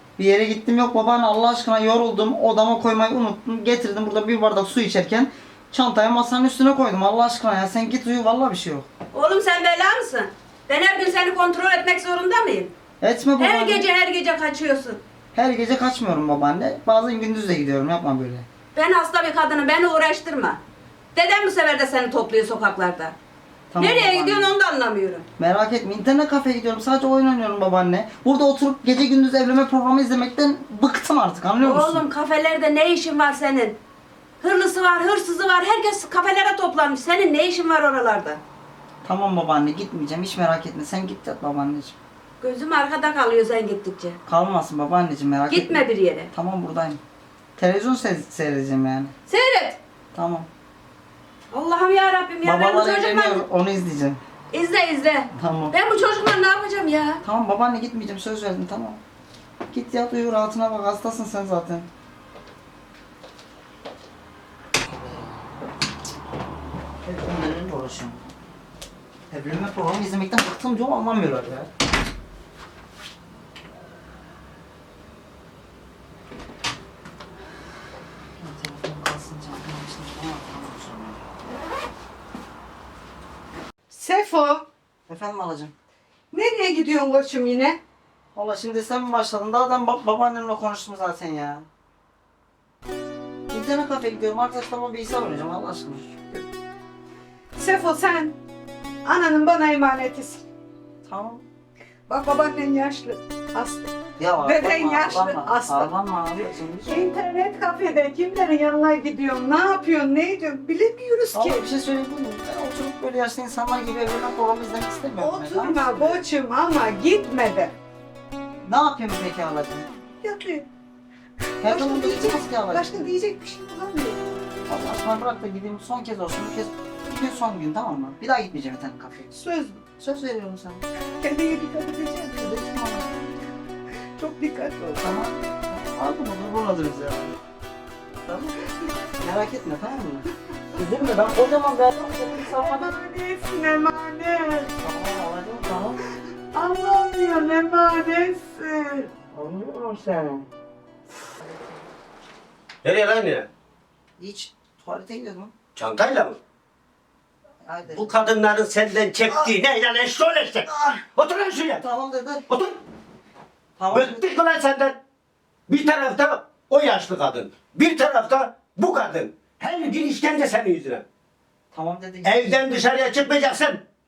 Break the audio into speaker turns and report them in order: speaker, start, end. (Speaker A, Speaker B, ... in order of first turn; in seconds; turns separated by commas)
Speaker A: 0.2-8.9, Speaker B: 9.1-12.7, Speaker A: 13.0-13.9, Speaker B: 13.4-15.0, Speaker A: 15.3-18.5, Speaker B: 18.7-20.6, Speaker B: 21.1-23.2, Speaker A: 23.7-24.6, Speaker B: 23.8-25.2, Speaker A: 25.4-32.1, Speaker B: 31.6-33.8, Speaker B: 34.4-38.4, Speaker A: 39.0-42.0, Speaker B: 42.4-44.2, Speaker A: 44.3-47.0, Speaker B: 45.5-46.3, Speaker A: 47.6-49.1, Speaker B: 49.3-49.8, Speaker A: 50.1-50.5, Speaker B: 51.5-53.5, Speaker A: 52.4-54.2, Speaker B: 54.5-57.2, Speaker A: 55.4-55.7, Speaker A: 57.2-59.0, Speaker A: 59.7-61.9, Speaker A: 64.8-65.4, Speaker A: 67.0-68.2, Speaker A: 69.3-71.7, Speaker A: 78.4-81.2, Speaker C: 83.9-84.7, Speaker A: 85.1-85.7, Speaker C: 86.3-87.8, Speaker A: 88.3-91.7, Speaker A: 93.5-96.0, Speaker C: 97.6-98.4, Speaker C: 99.0-100.4, Speaker A: 101.0-101.5, Speaker C: 102.1-103.9, Speaker A: 104.2-107.1, Speaker C: 104.4-105.9, Speaker C: 106.9-111.7, Speaker A: 111.3-115.9, Speaker C: 115.2-117.8, Speaker A: 118.7-119.9, Speaker C: 120.2-120.7, Speaker A: 121.6-123.2, Speaker C: 121.6-124.2, Speaker A: 124.7-129.4, Speaker C: 129.4-129.8, Speaker A: 129.9-130.8, Speaker C: 131.2-132.4, Speaker A: 132.3-133.1, Speaker C: 134.2-135.0, Speaker A: 135.0-137.4, Speaker A: 138.3-138.6, Speaker A: 139.2-142.9, Speaker C: 142.5-144.7, Speaker A: 144.8-146.0, Speaker C: 146.5-149.1, Speaker A: 149.1-150.5, Speaker A: 151.4-151.8, Speaker D: 152.8-153.5, Speaker A: 154.2-155.5, Speaker D: 155.8-156.4, Speaker A: 157.6-158.4, Speaker D: 157.9-161.8, Speaker A: 159.3-159.6, Speaker A: 160.7-161.0, Speaker A: 161.7-162.5, Speaker D: 162.5-162.8, Speaker A: 163.8-164.4, Speaker D: 163.9-165.0, Speaker D: 165.7-171.1, Speaker A: 171.7-172.8, Speaker D: 172.2-173.8